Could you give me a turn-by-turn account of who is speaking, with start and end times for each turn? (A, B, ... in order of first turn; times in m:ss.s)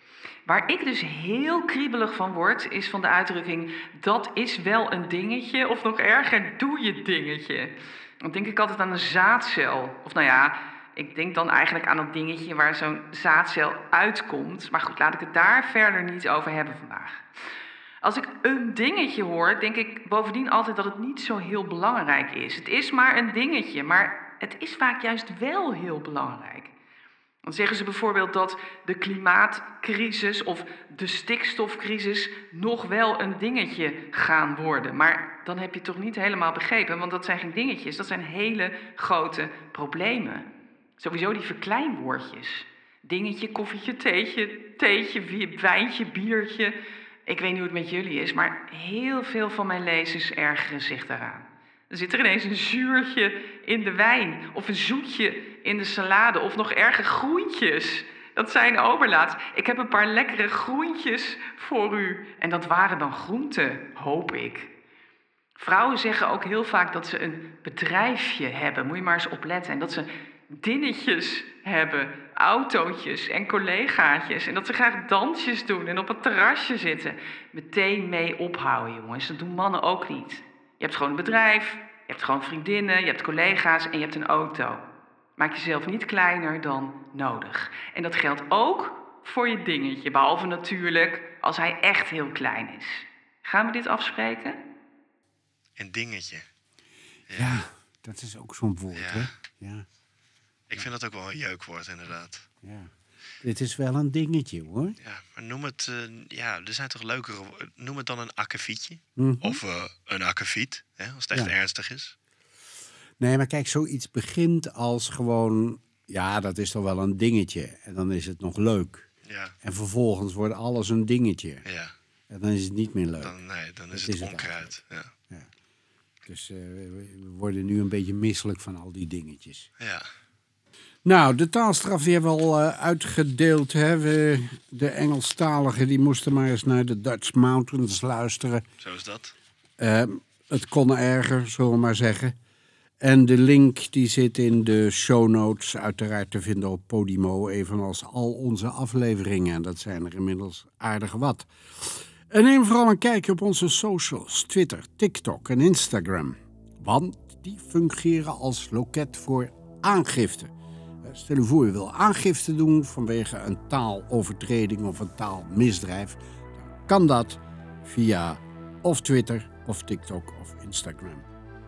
0:00.4-0:07.7 A
0:08.2-0:17.2 A
0:18.0-0:26.7 A
0:27.4-0:40.4 A
0:41.0-1:04.7 A
1:05.6-1:24.8 A
1:25.4-1:34.6 A
1:35.8-1:36.4 B
1:37.3-1:37.6 B
1:37.3-1:39.8 C
1:38.9-1:39.3 B
1:40.7-1:42.4 B
1:42.6-1:42.9 C
1:43.4-1:45.0 C
1:45.0-1:52.1 B
1:49.2-1:49.6 C
1:53.2-1:59.1 C
1:59.2-1:59.5 B
1:59.6-2:01.6 C
2:01.6-2:01.9 B
2:02.3-2:03.4 C
2:03.2-2:05.1 B
2:03.9-2:04.7 C
2:06.2-2:09.7 C
2:11.0-2:18.6 C
2:18.8-2:19.3 B
2:19.8-2:22.3 C
2:23.0-2:40.5 C
2:41.0-2:51.2 C